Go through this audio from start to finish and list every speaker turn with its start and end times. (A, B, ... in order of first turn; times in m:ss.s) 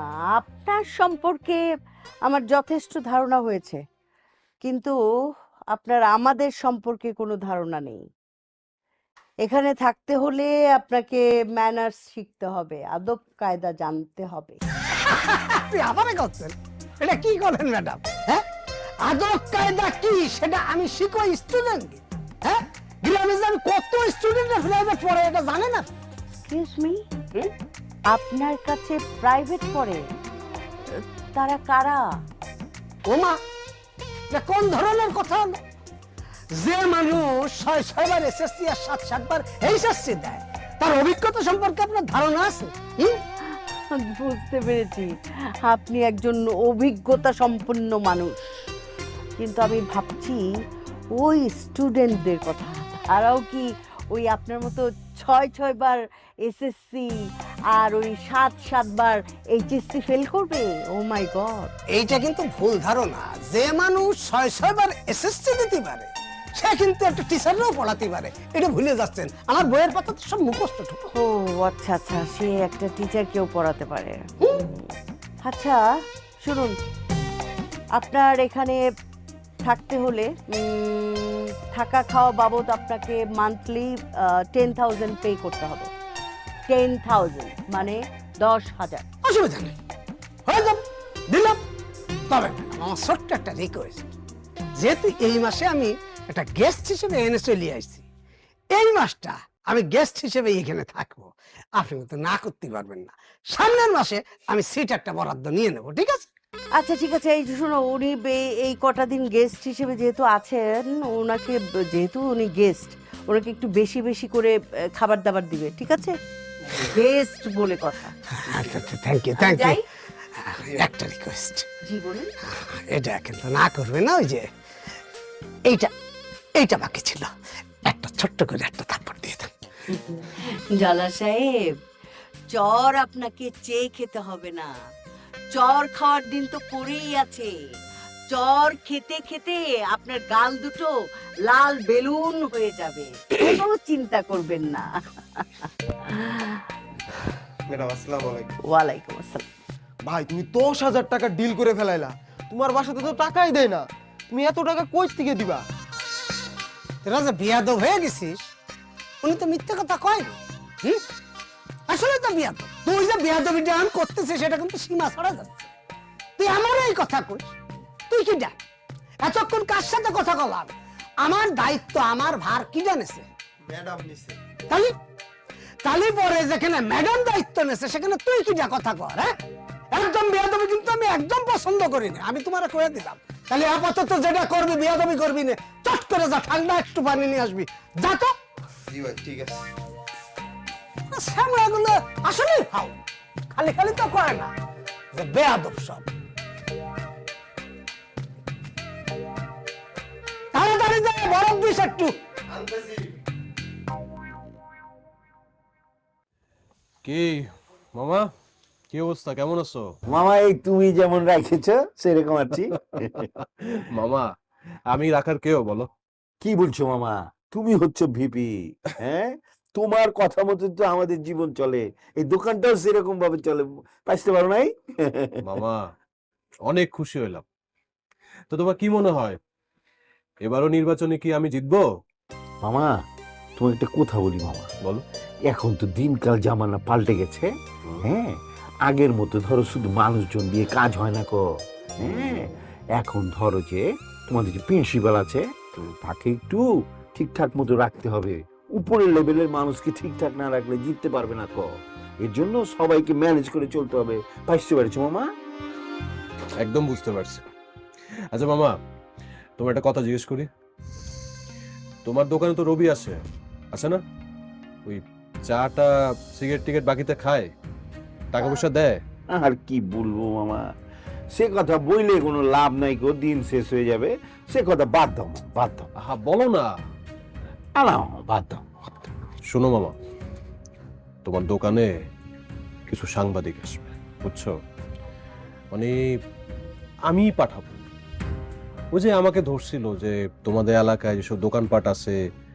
0:00.3-0:01.6 A
0:02.3-0:03.8 A
0:04.6-0:05.0 A
0:05.7-0:08.0 A
0:09.4-0:14.6 A
0:15.0-0:18.4 B
0:19.0-0:25.8 B
0:26.5-0:27.0 A
0:28.1-0:30.0 A
0:31.3-0:32.0 A
0:33.1-0:33.4 B
0:34.3-0:35.6 B
0:36.6-0:43.2 B
0:44.0-0:45.1 A
0:45.7-0:48.4 A
0:49.4-0:50.4 A
0:51.2-0:57.1 A
0:57.7-1:01.7 A
1:01.9-1:11.1 B
1:11.2-1:14.9 A
1:15.4-1:15.8 A
1:16.4-1:16.8 A
1:18.0-1:18.8 A
1:19.6-1:25.9 A
1:26.7-1:29.1 A
1:29.2-1:29.8 B
1:30.5-1:31.6 B
1:32.3-1:34.1 B
1:34.8-1:38.0 B
1:38.8-1:46.3 B
1:46.8-1:56.2 A
1:56.7-1:58.1 A
1:58.5-1:59.8 B
1:59.4-1:59.8 A
2:00.4-2:01.7 B
2:01.9-2:02.3 A
2:02.9-2:04.5 B
2:06.6-2:07.3 B
2:07.9-2:09.5 B
2:09.9-2:11.7 A
2:12.5-2:14.7 A
2:15.5-2:17.5 A
2:18.3-2:20.9 A
2:21.5-2:24.9 A
2:27.7-2:28.5 C
2:28.6-2:29.5 A
2:30.0-2:35.6 C
2:37.0-2:38.4 B
2:39.2-2:41.0 B
2:41.9-2:45.7 B
2:46.4-2:47.5 B
2:48.1-2:48.6 B
2:49.2-2:53.3 B
2:53.7-2:54.4 C
2:55.8-2:59.3 B
2:59.9-3:08.3 B
3:09.0-3:09.6 C
3:11.1-3:13.0 B
3:13.6-3:14.5 B
3:15.2-3:16.1 B
3:20.5-3:22.2 B
3:27.0-3:28.3 D
3:28.9-3:29.9 D
3:30.1-3:33.3 E
3:33.4-3:34.3 D
3:34.9-3:35.9 D
3:36.4-3:45.4 E
3:45.4-3:45.9 D
3:46.7-3:47.4 D
3:48.5-3:49.4 D
3:50.4-3:51.8 D
3:52.6-3:52.9 E
3:53.6-3:54.7 E
3:55.5-3:57.5 E
3:58.0-3:58.3 E
3:58.9-4:01.4 E
4:02.0-4:06.6 E
4:07.2-4:11.7 E
4:12.2-4:15.3 E
4:16.6-4:17.4 D
4:18.3-4:18.8 D
4:19.6-4:20.5 D
4:22.0-4:23.2 D
4:23.7-4:24.0 D
4:24.9-4:27.5 D
4:28.3-4:29.0 D
4:29.3-4:30.6 E
4:31.3-4:35.9 E
4:36.0-4:36.7 D
4:37.8-4:38.6 E
4:39.5-4:40.0 D
4:41.2-4:41.9 D
4:42.9-4:44.6 D
4:47.1-4:47.8 D
4:48.9-4:52.2 D